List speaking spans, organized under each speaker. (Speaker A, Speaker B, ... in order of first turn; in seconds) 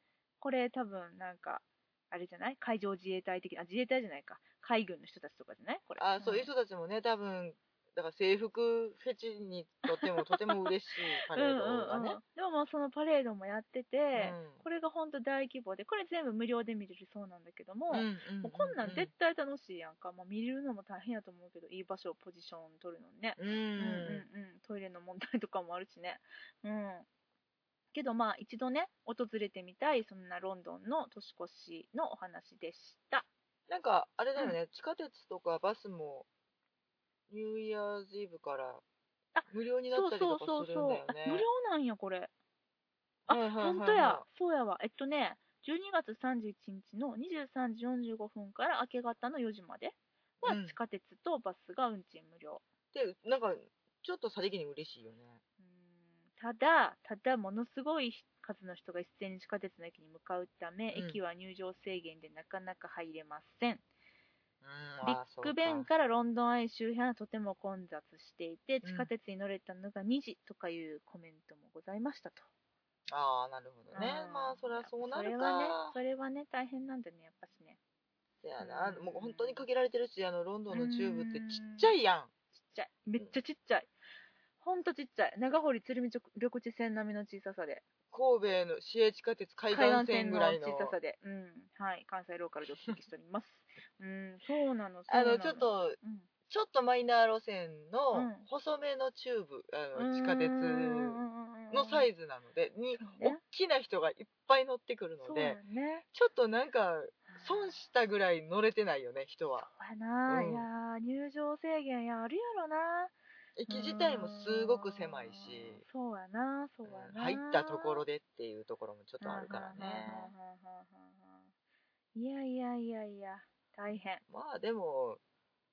Speaker A: 0.4-6.5, 9.9-27.1, 27.9-33.3, 39.4-42.3, 43.3-52.6, 55.6-63.8, 65.0-72.5, 73.9-77.8, 78.6-79.7, 80.7-81.9, 82.6-83.9, 84.6-87.8, 89.7-96.3, 98.1-98.5, 100.0-102.1, 103.0-103.4, 105.2-106.0, 107.3-107.8, 109.6-113.1, 113.7-118.0, 119.2-121.5, 122.2-124.2
Speaker B: 6.0-12.2, 14.2-14.6, 17.9-19.1, 23.4-24.3, 33.7-36.3, 37.3-38.8, 39.5-41.5, 43.3-44.3, 50.4-50.8, 52.9-55.4, 60.9-61.2, 64.6-65.9, 68.8-69.1, 73.1-76.0, 78.4-82.3, 88.1-91.0, 95.1-96.0, 96.5-105.6, 106.1-109.7, 110.3-110.7, 113.6-115.8, 116.8-120.3, 124.3-125.2